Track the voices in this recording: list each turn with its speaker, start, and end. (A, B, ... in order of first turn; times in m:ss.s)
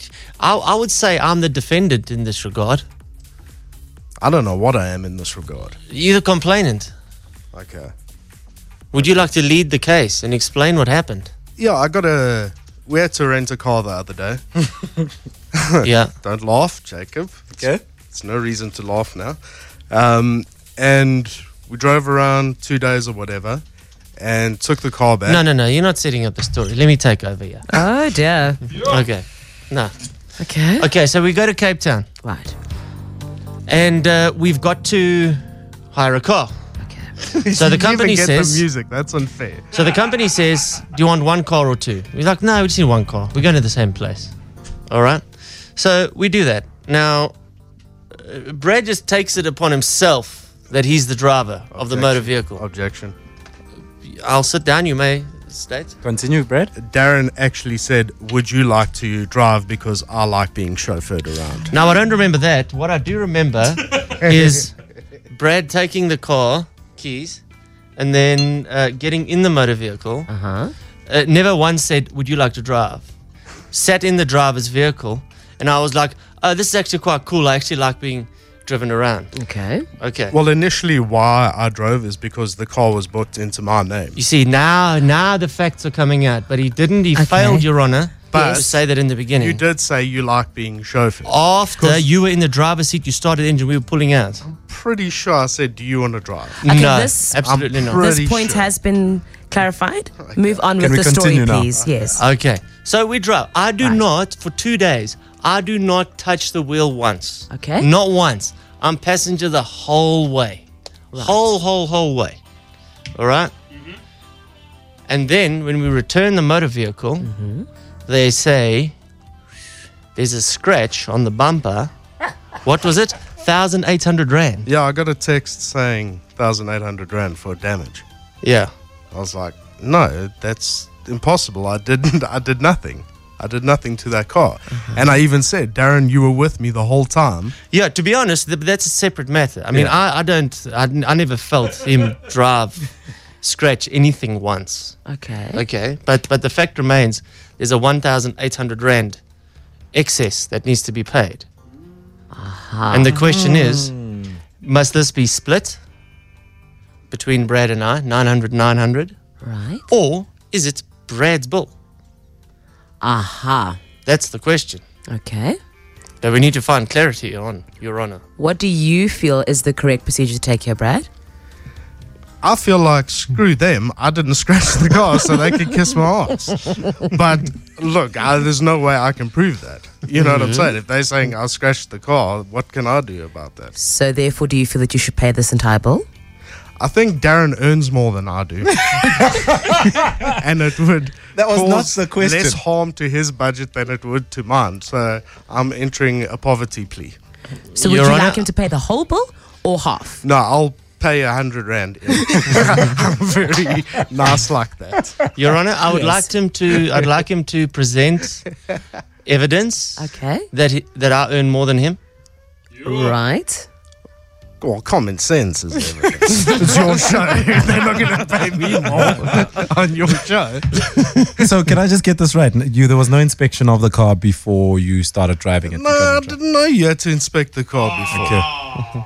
0:00.4-0:02.8 A
0:04.2-0:05.8 B
0:05.9-0:06.9 A
0:07.5-0:07.9 B
0:08.9-0:11.3 A
0:08.9-0:09.3 B
0:11.6-0:14.4 B
0:15.5-0:19.4 B
0:15.8-0:16.1 A
0:19.9-0:23.6 B
0:24.2-0:25.4 B
0:25.2-0:27.6 A
0:27.7-0:28.6 C
0:28.7-0:29.9 A
0:30.4-0:30.9 C
0:30.8-0:32.0 A
0:32.2-0:32.5 C
0:33.7-0:35.4 A
0:35.9-0:36.6 A
0:36.8-0:37.1 C
0:37.3-0:39.7 B
0:37.6-0:38.6 A
0:39.7-0:44.3 A
0:44.9-0:47.3 A
0:48.2-0:52.6 A
0:51.7-0:53.1 B
0:54.0-0:55.9 A
0:56.0-0:56.7 D
0:56.7-1:01.7 B
1:01.7-1:04.7 A
1:05.3-1:07.4 A
1:08.0-1:10.3 A
1:10.3-1:10.7 C
1:11.1-1:13.1 A
1:13.7-1:19.3 A
1:19.3-1:19.8 C
1:20.0-1:20.3 A
1:20.3-1:24.2 B
1:24.1-1:29.6 A
1:27.2-1:27.6 C
1:28.3-1:28.8 B
1:29.4-1:32.0 B
1:31.2-1:34.4 A
1:34.4-1:36.6 B
1:36.6-1:38.0 A
1:36.6-1:42.2 C
1:37.4-1:38.7 B
1:40.2-1:40.7 B
1:40.8-1:41.9 D
1:41.8-1:42.1 B
1:42.2-1:52.4 A
1:47.5-1:47.9 C
1:53.2-1:53.5 A
1:55.1-1:57.3 A
1:57.2-1:57.6 C
1:58.1-1:58.9 A
2:00.2-2:01.9 A
2:02.6-2:04.7 A
2:04.7-2:08.0 B
2:08.4-2:08.7 A
2:09.1-2:17.5 B
2:17.7-2:22.8 A
2:23.4-2:25.0 A
2:25.1-2:25.6 C
2:25.5-2:29.2 A
2:29.9-2:31.4 A
2:32.3-2:33.2 C
2:32.9-2:33.9 A
2:33.1-2:34.4 D
2:34.6-2:35.8 A
2:37.1-2:39.1 A
2:39.4-2:39.8 C
2:39.9-2:41.7 A
2:43.0-2:43.8 C
2:44.0-2:44.8 A
2:45.1-2:45.6 C
2:46.2-2:48.2 A
2:48.4-2:51.1 C
2:52.4-3:03.7 B
3:00.2-3:00.7 A
3:03.8-3:06.0 C
3:06.8-3:09.0 B
3:09.0-3:10.0 D
3:10.2-3:17.2 B
3:11.3-3:12.6 D
3:17.7-3:20.2 C
3:17.8-3:18.4 A
3:20.2-3:25.2 B
3:25.4-3:28.4 A
3:25.9-3:26.3 C
3:29.2-3:32.0 A
3:30.0-3:30.5 C
3:32.8-3:33.7 C
3:34.6-3:41.5 B
3:41.4-3:46.4 D
3:45.7-3:48.5 B
3:48.1-3:48.7 D